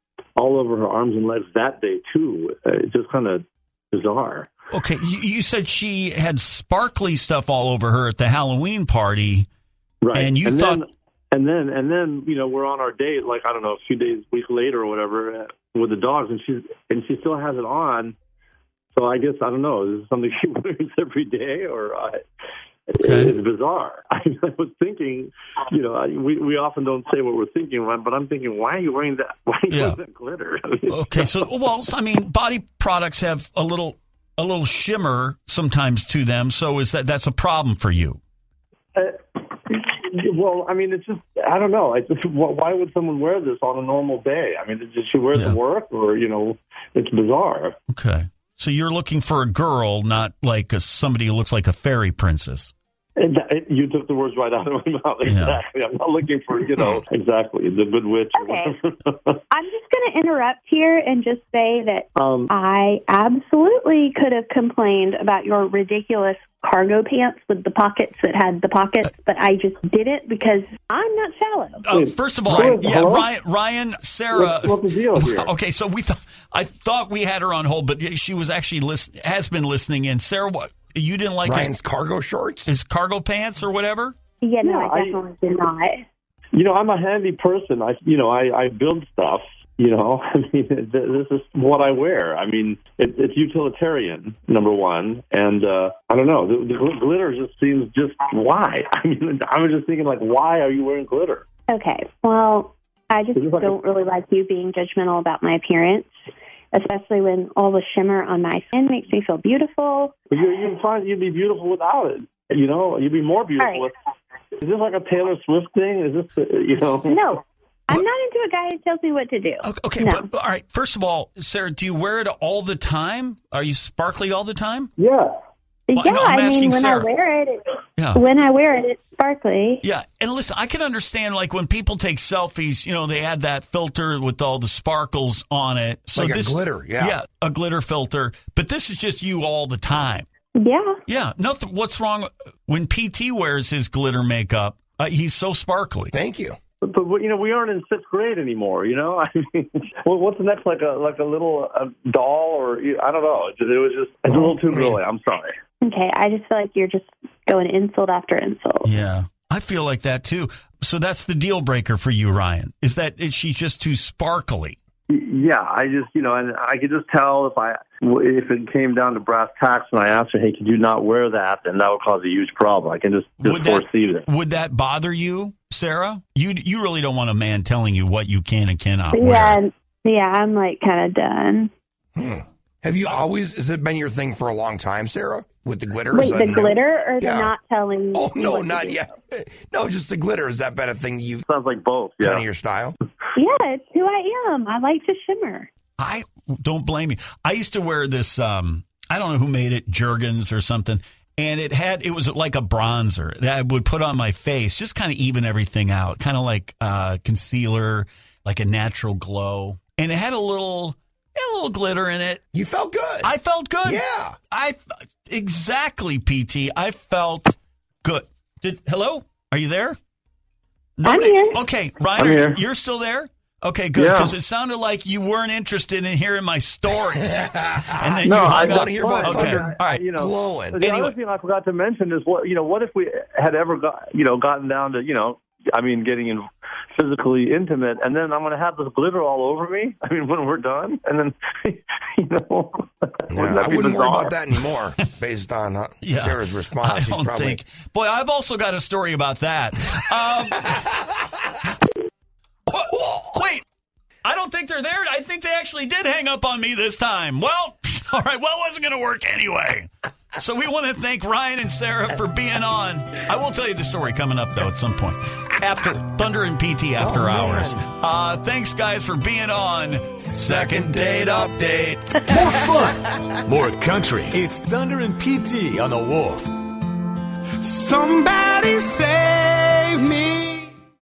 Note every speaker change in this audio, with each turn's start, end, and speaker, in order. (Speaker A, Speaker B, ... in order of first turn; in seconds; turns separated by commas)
Speaker A: 0.3-4.5, Speaker B: 4.7-9.5, Speaker A: 10.0-18.1, Speaker B: 10.1-10.8, Speaker A: 18.9-22.2, Speaker A: 22.9-31.4, Speaker B: 23.0-23.3, Speaker B: 29.7-30.0, Speaker B: 30.9-38.2, Speaker A: 38.9-47.8, Speaker B: 45.3-45.6, Speaker B: 47.9-52.7, Speaker A: 53.2-59.4, Speaker B: 55.2-55.6, Speaker C: 58.4-58.8, Speaker C: 59.5-71.8, Speaker A: 62.1-62.5, Speaker B: 71.8-81.8, Speaker A: 71.9-73.3, Speaker A: 74.3-75.5, Speaker D: 81.4-82.7, Speaker B: 82.7-84.2, Speaker C: 84.4-86.0, Speaker A: 84.6-85.2, Speaker A: 86.5-101.4, Speaker C: 101.7-106.1, Speaker A: 103.3-103.7, Speaker C: 106.7-110.1, Speaker A: 110.3-113.9, Speaker C: 113.6-113.8, Speaker A: 114.6-117.2, Speaker C: 117.1-120.3, Speaker B: 119.6-124.9, Speaker A: 125.0-125.3, Speaker C: 125.9-127.6, Speaker B: 125.9-127.1, Speaker B: 128.0-128.2, Speaker C: 128.1-129.8, Speaker B: 129.8-140.3, Speaker D: 136.2-137.2, Speaker C: 140.6-140.9, Speaker B: 141.1-146.1, Speaker D: 146.1-146.6, Speaker A: 146.8-155.6, Speaker D: 154.3-154.9, Speaker C: 155.8-158.9, Speaker B: 158.8-164.8, Speaker A: 165.1-174.3, Speaker B: 173.4-179.6, Speaker C: 179.1-181.7, Speaker D: 182.2-187.5, Speaker C: 186.1-189.1, Speaker D: 188.1-191.4, Speaker A: 191.4-192.4, Speaker D: 192.2-192.9, Speaker C: 193.3-195.7, Speaker B: 196.0-212.4, Speaker D: 212.5-213.3, Speaker B: 213.2-220.0, Speaker D: 213.8-214.4, Speaker B: 221.0-230.1, Speaker C: 221.1-221.6, Speaker A: 222.2-222.6, Speaker A: 224.0-224.3, Speaker D: 227.3-230.8, Speaker A: 228.2-244.4, Speaker B: 230.8-231.2, Speaker D: 243.3-247.6, Speaker B: 246.0-250.8, Speaker B: 252.7-253.6, Speaker B: 254.2-271.5, Speaker D: 267.0-267.8, Speaker D: 270.3-272.0, Speaker B: 272.3-272.7, Speaker E: 272.7-276.5